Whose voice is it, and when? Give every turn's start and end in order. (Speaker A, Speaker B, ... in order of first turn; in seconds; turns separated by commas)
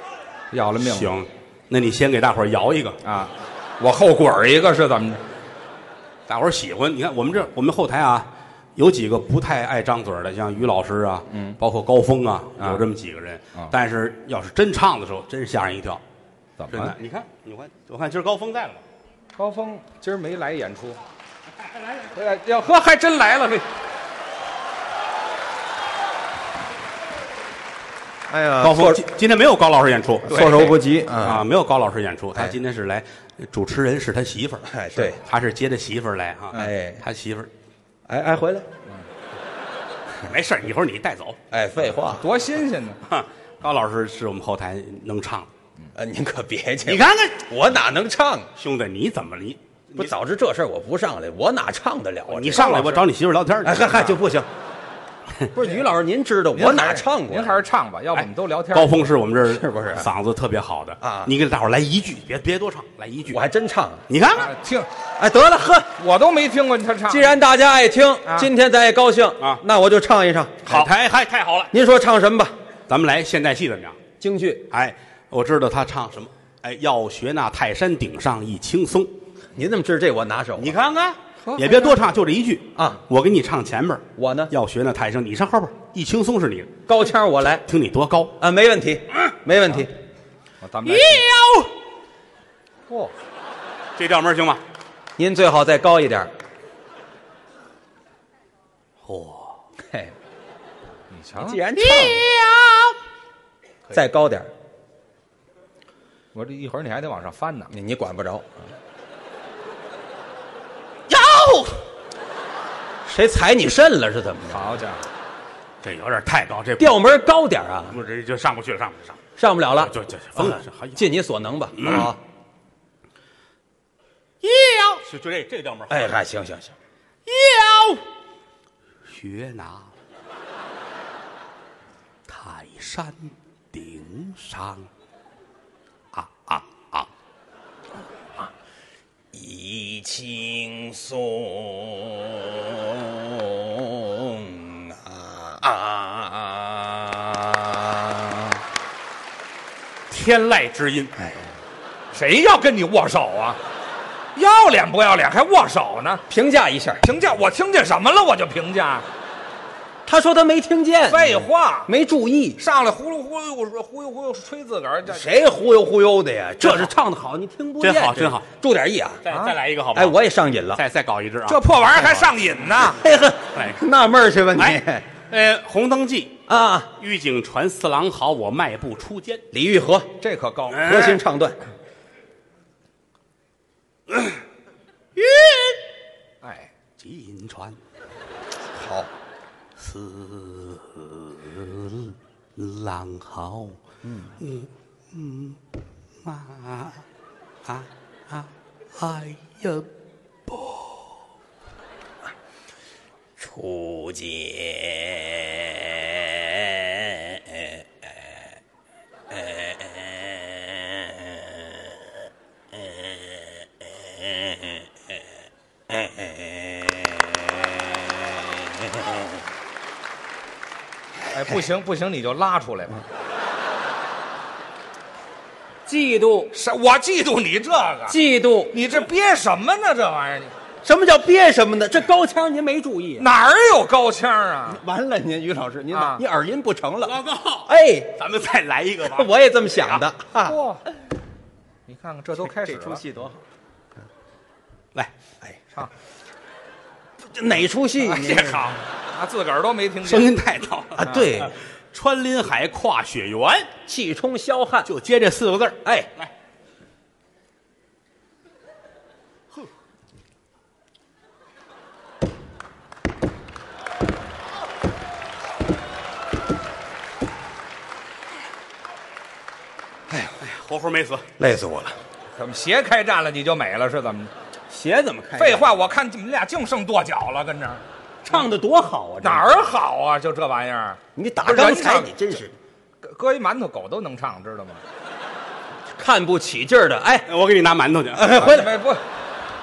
Speaker A: 0.5-1.1, Speaker B: 0.8-3.0, Speaker A: 3.0-5.2, Speaker B: 6.3-16.0, Speaker A: 11.3-11.6, Speaker A: 12.6-12.8, Speaker A: 16.6-16.9, Speaker B: 16.7-18.8, Speaker A: 19.4-21.0, Speaker A: 22.0-23.7, Speaker C: 28.3-29.0, Speaker B: 28.6-30.5, Speaker C: 30.3-31.4, Speaker A: 30.3-30.8, Speaker B: 31.2-37.5, Speaker C: 34.7-35.2, Speaker C: 36.5-37.0, Speaker C: 38.1-38.7, Speaker B: 40.2-41.4, Speaker C: 41.5-42.2, Speaker A: 42.2-43.0, Speaker B: 43.1-45.5, Speaker C: 46.0-48.5, Speaker B: 46.8-47.5, Speaker B: 48.6-50.1, Speaker C: 50.0-52.9, Speaker B: 52.3-54.2, Speaker A: 52.5-53.0, Speaker C: 53.6-54.5, Speaker C: 55.5-57.6, Speaker A: 56.5-59.1, Speaker B: 58.1-63.4, Speaker C: 59.5-60.1, Speaker C: 61.0-61.3, Speaker C: 63.3-64.0, Speaker B: 64.1-64.5, Speaker A: 64.4-64.9, Speaker C: 65.2-65.9, Speaker A: 66.0-67.4, Speaker C: 67.1-70.7, Speaker B: 70.7-71.7, Speaker C: 71.7-72.5, Speaker B: 72.9-74.0, Speaker C: 74.2-74.6, Speaker B: 74.7-79.1, Speaker C: 79.5-80.8, Speaker B: 80.6-86.8, Speaker A: 81.4-82.0, Speaker C: 84.2-84.5, Speaker C: 86.9-87.7, Speaker B: 87.7-88.3, Speaker C: 88.4-89.9, Speaker A: 90.6-91.3, Speaker B: 90.9-91.7, Speaker B: 94.0-94.6, Speaker C: 95.2-96.3, Speaker B: 99.0-99.6, Speaker A: 101.1-101.6, Speaker C: 101.4-102.2, Speaker B: 101.8-103.0, Speaker C: 103.9-104.5, Speaker A: 106.3-107.7, Speaker C: 107.7-108.5, Speaker B: 111.1-111.8, Speaker C: 113.1-114.8, Speaker A: 114.5-115.1, Speaker B: 115.8-117.0, Speaker C: 116.8-118.0, Speaker B: 117.9-121.1, Speaker C: 119.4-122.2, Speaker B: 121.8-122.1, Speaker B: 124.4-126.2, Speaker C: 125.9-126.8, Speaker B: 127.3-128.0, Speaker B: 129.1-129.9, Speaker B: 132.3-134.9, Speaker B: 136.1-137.1, Speaker C: 139.3-148.6, Speaker B: 150.1-151.1, Speaker A: 152.1-153.6, Speaker A: 154.3-156.2, Speaker C: 156.3-157.0, Speaker A: 157.0-159.1, Speaker C: 160.1-162.6, Speaker A: 161.1-161.9, Speaker A: 162.6-165.3, Speaker C: 165.1-169.2, Speaker B: 167.8-168.4, Speaker B: 169.2-170.2, Speaker A: 169.3-169.6, Speaker C: 169.9-170.8, Speaker B: 170.7-172.3, Speaker A: 171.5-173.0, Speaker C: 173.0-175.1, Speaker B: 173.5-173.8, Speaker B: 174.6-179.5, Speaker C: 176.5-176.9, Speaker C: 179.5-180.1, Speaker A: 180.2-181.1, Speaker C: 180.8-181.6, Speaker B: 180.9-181.2, Speaker B: 185.2-185.8, Speaker A: 186.4-186.7, Speaker B: 187.0-187.8, Speaker A: 188.7-189.1, Speaker B: 189.8-193.8, Speaker C: 194.1-194.3, Speaker B: 194.4-195.6, Speaker B: 196.2-197.0, Speaker B: 197.7-199.9, Speaker B: 200.5-201.1, Speaker C: 203.4-208.2, Speaker C: 209.3-211.8, Speaker C: 212.7-214.9, Speaker C: 215.9-217.7, Speaker C: 218.8-219.1, Speaker A: 221.3-223.0, Speaker C: 225.9-226.5, Speaker A: 226.5-228.2, Speaker C: 228.1-228.7, Speaker A: 228.7-230.5, Speaker C: 230.8-233.3, Speaker A: 233.2-234.8, Speaker C: 234.7-238.1, Speaker A: 235.9-236.2, Speaker B: 237.0-240.0, Speaker C: 239.1-240.6, Speaker A: 240.4-240.8, Speaker A: 241.9-243.0, Speaker C: 242.4-243.4, Speaker C: 247.2-248.7, Speaker A: 248.0-250.3, Speaker B: 250.0-253.7, Speaker C: 251.0-251.6, Speaker C: 253.9-254.9, Speaker B: 254.8-256.3, Speaker B: 270.4-271.3, Speaker C: 271.4-272.0, Speaker A: 272.4-274.3, Speaker C: 274.7-275.8, Speaker A: 275.4-277.8, Speaker C: 278.2-279.6, Speaker A: 279.2-282.1, Speaker C: 281.1-282.6, Speaker A: 283.0-284.8, Speaker C: 286.0-287.3, Speaker B: 287.3-288.5, Speaker C: 288.1-288.8, Speaker A: 288.3-289.0